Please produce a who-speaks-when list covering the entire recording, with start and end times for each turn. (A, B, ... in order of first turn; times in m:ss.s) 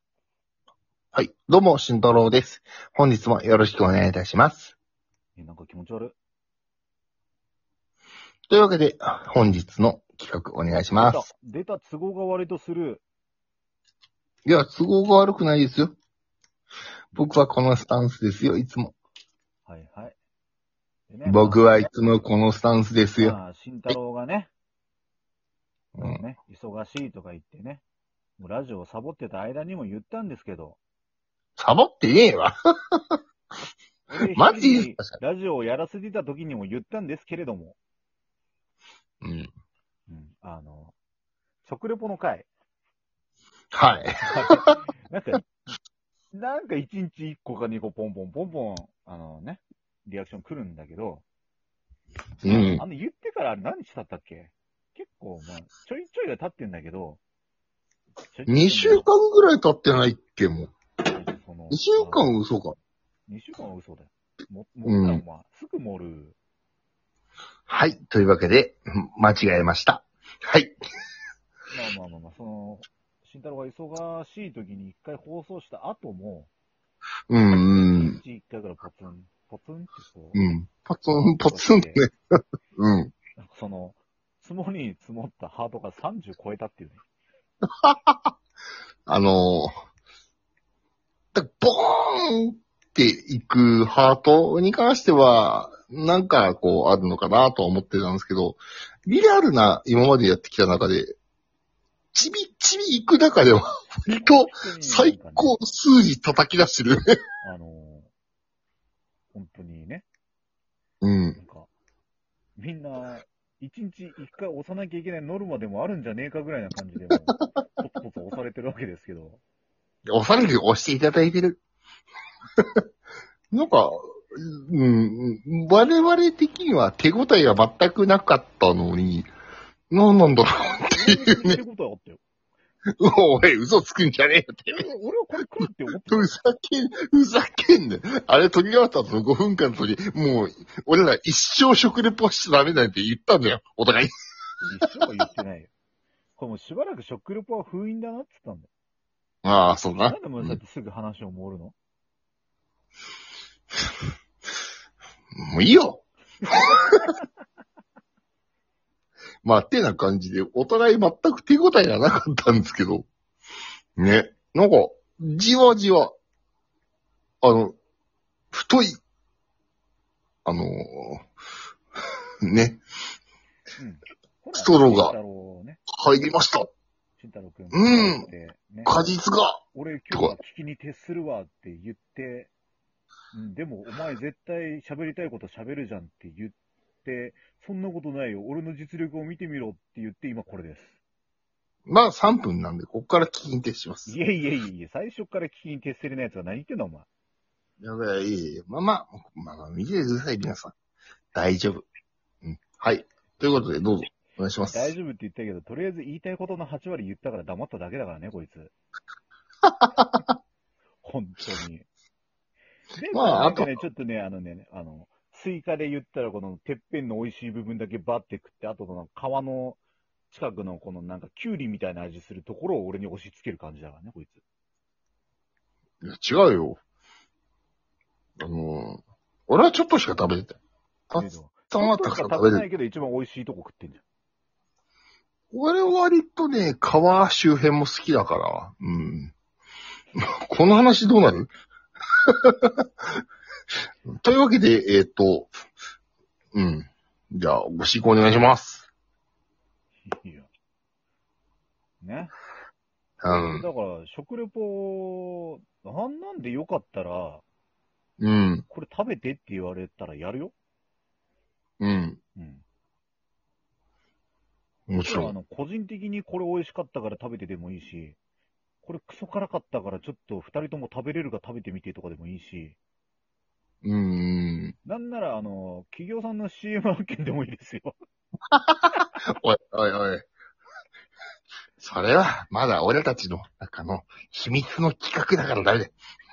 0:01.1-0:04.8 A
0:05.4-0:06.2 B
0:08.5-0:11.3 A
0:10.9-0:13.0 B
0:14.5-0:16.0 A
0:17.1-0:18.9 A
0:19.7-0:20.2 B
0:21.1-0:21.9 B
0:21.3-0:23.4 A
0:23.2-0:24.5 B
0:26.0-0:26.2 A
0:26.0-0:27.8 B
0:28.4-0:30.8 B
0:31.6-0:33.2 A
0:34.1-0:37.8 B
0:34.3-0:35.1 A
0:39.2-0:39.5 A
0:40.1-0:41.0 B
0:41.6-0:42.5 B
0:43.7-0:44.8 A
0:44.3-0:45.4 B
0:46.3-0:51.2 B
0:52.4-0:57.2 B
0:52.4-0:52.8 A
0:58.3-0:59.1 B
0:58.5-1:00.7 A
1:01.1-1:02.3 B
1:01.7-1:02.8 A
1:03.3-1:06.4 B
1:04.8-1:05.2 A
1:07.7-1:10.8 A
1:11.7-1:16.5 B
1:17.3-1:18.2 A
1:17.7-1:20.4 B
1:20.4-1:23.1 A
1:21.1-1:22.0 B
1:23.4-1:27.0 B
1:27.7-1:28.3 A
1:29.1-1:29.7 A
1:31.3-1:41.1 A
1:42.1-1:47.2 A
1:44.1-1:45.6 B
1:47.4-1:48.1 B
1:49.3-1:50.1 B
1:51.0-1:51.4 A
1:51.4-1:51.7 B
1:52.6-1:59.4 B
2:00.1-2:01.6 A
2:03.5-2:09.3 A
2:09.9-2:11.6 A
2:10.6-2:12.2 B
2:13.0-2:14.9 A
2:14.7-2:16.4 B
2:16.1-2:24.1 A
2:24.6-2:25.7 B
2:26.4-2:28.7 B
2:29.4-2:30.6 A
2:30.0-2:31.8 B
2:35.4-2:37.0 A
2:36.6-2:37.1 B
2:39.4-2:43.1 A
2:44.0-2:46.2 A
2:47.4-2:47.8 A
2:48.5-2:49.0 A
2:50.4-2:51.3 A
2:52.4-2:52.8 A
2:53.8-2:55.8 B
2:54.6-2:55.2 A
2:55.9-2:56.7 A
2:57.2-2:59.2 B
2:57.7-2:58.3 A
2:58.8-2:59.6 A
2:59.7-3:02.5 B
3:03.3-3:11.0 B
3:11.9-3:14.2 A
3:14.1-3:17.1 B
3:17.8-3:20.7 A
3:21.3-3:21.8 A
3:22.4-3:24.9 A
3:24.7-3:28.7 B
3:29.7-3:30.2 A
3:31.0-3:31.9 B
3:33.0-3:39.8 B
3:33.1-3:33.8 A
3:40.3-3:44.4 B
3:46.0-3:46.8 A
3:48.4-3:50.6 A
3:51.1-3:52.7 A
3:51.2-3:54.0 B
3:55.5-3:59.3 A
4:00.2-4:01.5 A
4:02.3-4:02.8 A
4:04.2-4:05.5 A
4:06.5-4:08.9 A
4:10.1-4:10.5 B
4:12.0-4:12.3 B
4:13.2-4:13.6 A
4:13.2-4:17.4 B
4:18.2-4:18.6 A
4:18.7-4:20.5 B
4:21.8-4:22.2 A
4:22.4-4:22.6 B
4:24.9-4:25.3 A
4:25.0-4:28.2 B
4:28.8-4:32.8 B
4:33.8-4:34.8 A
4:34.8-4:38.0 B
4:38.5-4:40.3 A
4:41.8-4:45.9 A